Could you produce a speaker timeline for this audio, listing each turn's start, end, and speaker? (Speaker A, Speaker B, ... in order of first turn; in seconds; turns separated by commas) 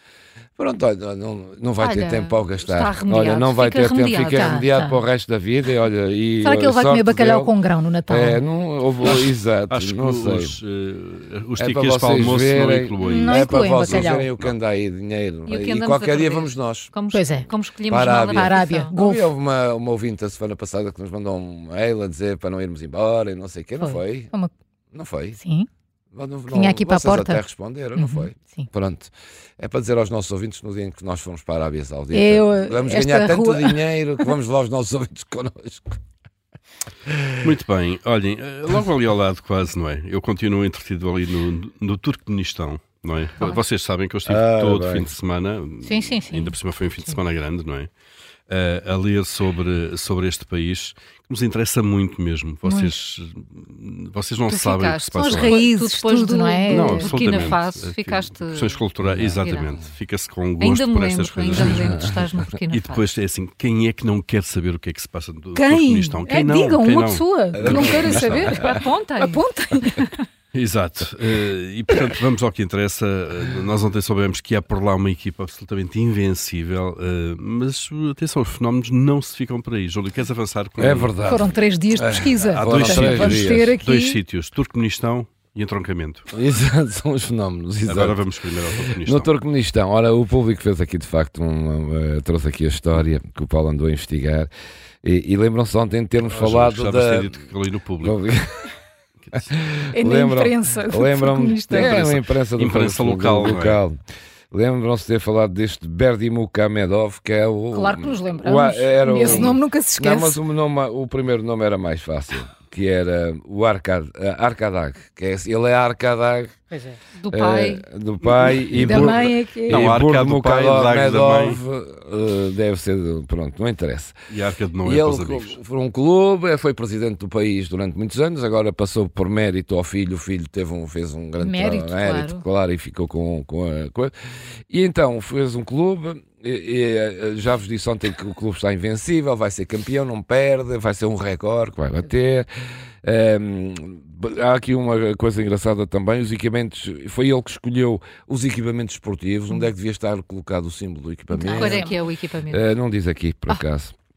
Speaker A: 0.6-7.5, Speaker B: 1.8-4.6, Speaker C: 4.3-5.0, Speaker C: 6.4-8.4, Speaker A: 8.1-10.6, Speaker D: 9.0-14.6, Speaker A: 11.6-16.9, Speaker C: 13.0-14.3, Speaker B: 15.5-19.0, Speaker C: 17.1-17.5, Speaker A: 17.9-24.3, Speaker C: 18.3-19.3, Speaker C: 23.8-24.5, Speaker A: 24.9-25.4, Speaker C: 25.4-25.7, Speaker A: 26.1-36.0, Speaker C: 26.5-27.4, Speaker C: 28.0-28.7, Speaker C: 32.1-34.3, Speaker D: 37.4-47.9, Speaker A: 44.3-45.1, Speaker C: 45.8-46.5, Speaker D: 48.5-55.6, Speaker B: 54.5-58.9, Speaker C: 55.3-57.1, Speaker D: 56.7-62.0, Speaker A: 59.0-59.4, Speaker B: 59.4-59.7, Speaker B: 60.6-63.1, Speaker A: 61.5-62.5, Speaker D: 62.7-68.6, Speaker C: 65.5-70.2, Speaker A: 67.5-68.8, Speaker B: 68.5-69.4, Speaker D: 70.5-81.1, Speaker A: 80.8-83.8, Speaker C: 81.2-84.2, Speaker D: 82.5-86.3, Speaker A: 86.3-88.2, Speaker D: 87.9-89.3, Speaker A: 88.8-94.5, Speaker A: 95.0-97.3, Speaker D: 96.3-98.2, Speaker A: 98.0-98.7, Speaker D: 99.2-99.6, Speaker A: 99.5-104.0, Speaker C: 99.9-102.0, Speaker D: 101.7-103.8, Speaker A: 104.5-116.5, Speaker C: 107.7-110.4, Speaker D: 109.2-109.5, Speaker C: 116.7-117.0, Speaker B: 117.2-117.8, Speaker A: 117.3-124.2, Speaker D: 118.2-121.6, Speaker C: 118.8-119.9, Speaker D: 124.3-125.6, Speaker A: 124.8-134.1, Speaker C: 131.4-132.4, Speaker A: 134.7-142.5, Speaker A: 143.0-151.9, Speaker C: 151.3-152.0, Speaker B: 151.5-152.7, Speaker A: 152.5-153.9